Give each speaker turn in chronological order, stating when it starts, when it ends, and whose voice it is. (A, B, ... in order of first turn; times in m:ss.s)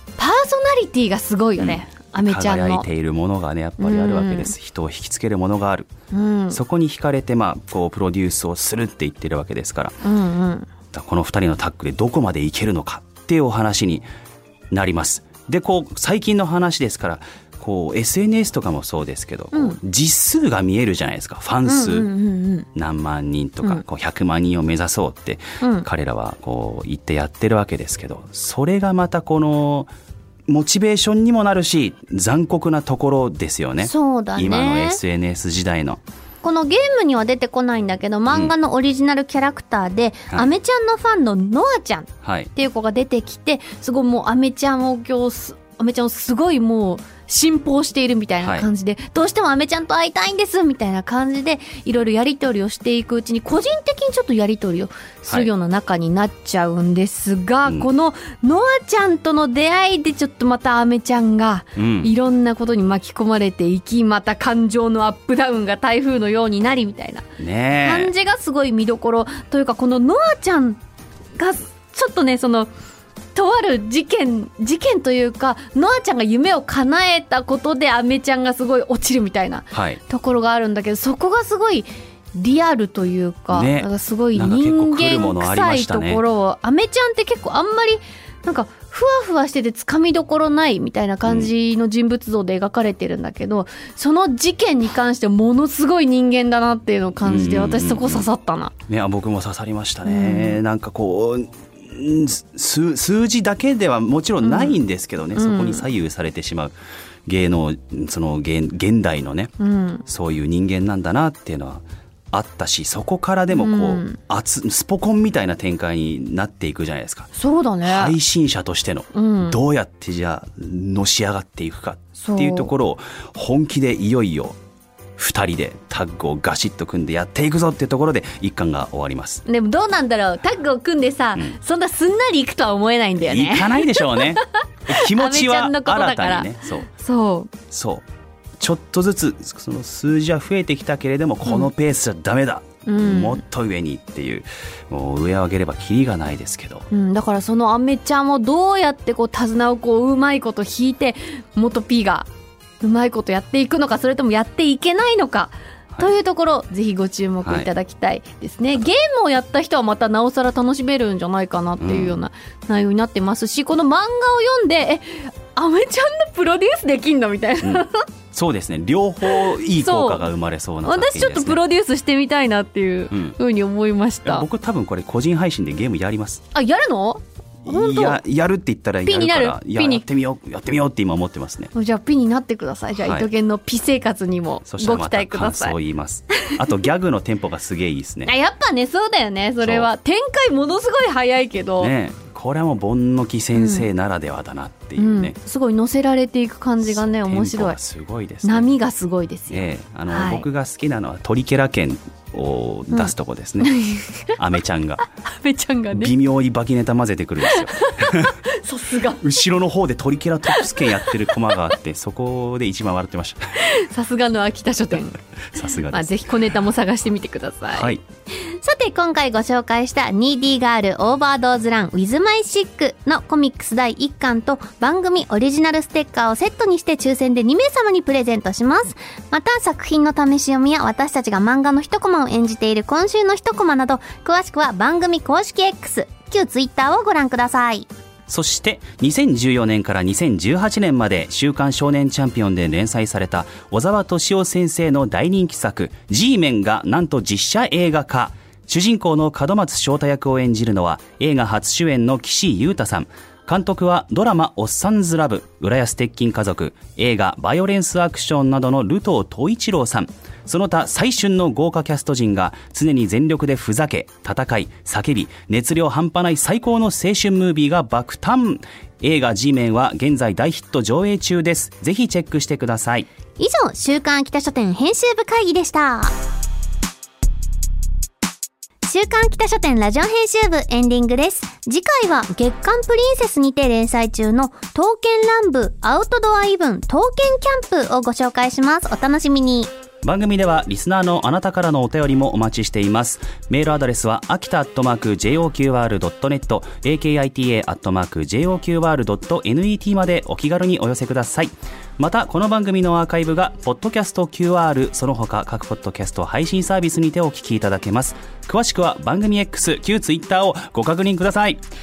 0:00.2-0:02.8 A
0:01.6-0:05.9 B
0:03.8-0:04.5 A
0:06.1-0:06.6 A
0:06.5-0:10.0 B
0:10.0-0:10.7 A
0:10.9-0:14.0 B
0:14.7-0:22.1 B
0:21.8-0:22.6 A
0:22.7-0:29.9 B
0:30.5-0:36.0 B
0:33.9-0:34.9 A
0:36.4-1:07.2 A
0:38.3-0:38.6 B
0:42.2-0:42.5 B
0:48.4-0:48.7 B
1:01.8-1:02.1 B
1:07.4-1:08.1 B
1:07.8-1:10.8 A
1:11.4-1:12.7 A
1:13.3-1:38.7 A
1:19.7-1:20.0 B
1:23.5-1:26.2 B
1:31.2-1:31.5 B
1:37.2-1:38.3 B
1:38.9-1:46.7 B
1:40.0-1:40.5 A
1:44.4-1:44.7 A
1:45.4-1:45.8 A
1:47.2-1:49.5 B
1:49.6-1:50.0 A
1:50.1-1:57.3 B
1:53.5-1:54.1 A
1:57.4-1:58.1 A
1:57.8-2:04.6 B
1:59.1-1:59.5 A
2:02.2-2:02.7 A
2:05.2-2:09.4 B
2:09.4-2:14.4 A
2:13.2-2:16.9 B
2:15.1-2:17.5 A
2:17.7-2:18.0 B
2:18.6-2:26.9 B
2:22.8-2:23.4 A
2:26.9-2:32.3 A
2:32.8-2:48.0 A
2:37.4-2:37.7 B
2:41.8-2:42.2 B
2:47.6-2:51.6 B
2:49.8-2:50.2 A
2:50.8-2:54.4 A
2:53.1-2:53.4 B
2:54.2-2:56.4 B
2:56.5-2:58.2 A
2:57.6-3:01.7 B
2:59.0-3:00.0 A
3:01.7-3:05.7 A
3:03.0-3:03.3 B
3:04.6-3:08.3 B
3:08.3-3:11.9 A
3:09.6-3:09.9 B
3:11.8-3:15.4 B
3:13.5-3:13.8 A
3:15.0-3:17.8 A
3:16.8-3:18.7 B
3:18.4-3:20.4 A
3:19.5-3:23.8 B
3:23.6-3:24.2 A
3:24.4-3:25.0 B
3:25.4-3:26.1 A
3:25.9-3:28.4 B
3:27.5-3:29.2 A
3:29.0-3:33.7 B
3:33.7-3:35.2 A
3:35.5-3:36.4 B
3:36.0-3:37.9 A
3:37.7-3:38.0 B
3:38.4-3:57.9 C
3:58.3-4:33.1 B
4:33.4-4:36.1 C
4:38.8-4:49.7 C
4:50.0-5:11.6 B